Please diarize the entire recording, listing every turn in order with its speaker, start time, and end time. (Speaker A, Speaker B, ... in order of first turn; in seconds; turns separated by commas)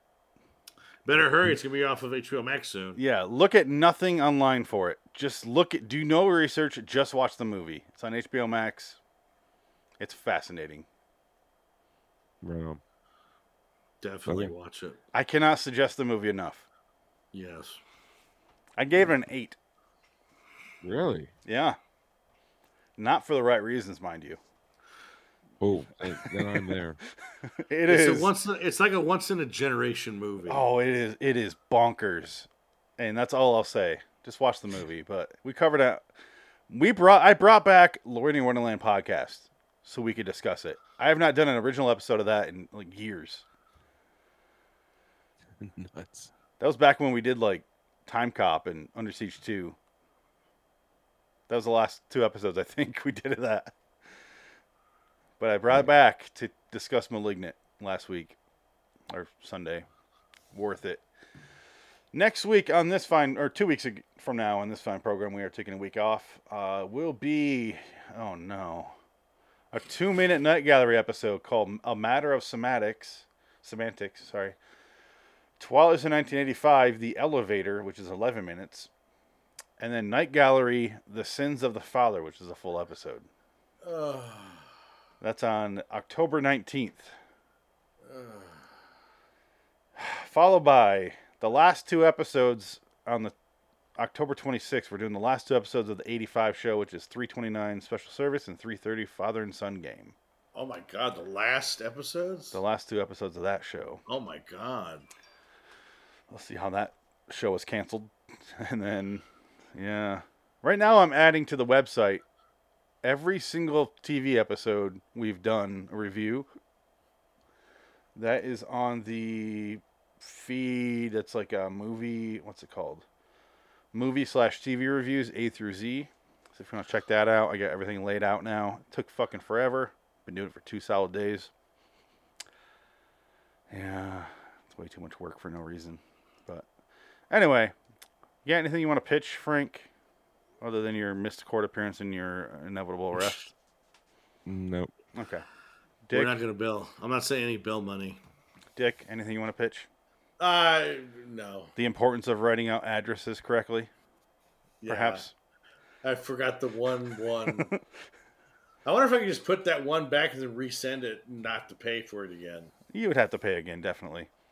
Speaker A: 1.0-3.0, Speaker B: 3.0-9.0, Speaker B: 10.0-10.8, Speaker C: 12.4-12.8, Speaker A: 14.0-15.0, Speaker C: 14.3-14.5, Speaker B: 15.1-16.6, Speaker A: 17.3-17.8, Speaker B: 18.8-19.6, Speaker C: 20.8-21.3, Speaker B: 21.4-21.8, Speaker B: 23.0-24.4, Speaker C: 25.6-27.0, Speaker B: 27.6-28.3, Speaker A: 27.9-30.6, Speaker B: 30.5-36.0, Speaker B: 36.7-43.4, Speaker C: 45.6-46.3, Speaker B: 46.6-49.8, Speaker B: 51.5-53.7, Speaker B: 55.4-58.4, Speaker B: 59.1-59.9, Speaker B: 60.5-61.0, Speaker B: 62.1-68.9, Speaker B: 69.7-74.5, Speaker B: 75.6-78.9, Speaker B: 79.8-83.3, Speaker A: 83.8-84.7, Speaker B: 85.2-87.1, Speaker A: 88.0-88.7, Speaker B: 90.0-93.3, Speaker B: 94.0-100.1, Speaker A: 100.5-102.6, Speaker B: 102.5-104.0, Speaker A: 104.1-105.1, Speaker B: 106.3-109.2, Speaker B: 109.8-112.2, Speaker B: 113.0-116.5, Speaker B: 118.1-123.0, Speaker B: 123.9-131.5, Speaker B: 133.7-136.7, Speaker B: 137.3-137.7, Speaker B: 138.4-139.9, Speaker B: 140.6-143.5, Speaker C: 144.4-144.9, Speaker B: 145.1-145.4, Speaker B: 146.1-146.3, Speaker A: 146.1-148.2, Speaker B: 148.8-149.9, Speaker A: 150.4-151.7, Speaker B: 151.8-153.9, Speaker A: 154.8-155.2, Speaker B: 154.9-155.3, Speaker A: 156.0-157.7, Speaker A: 158.8-162.7, Speaker B: 162.9-164.3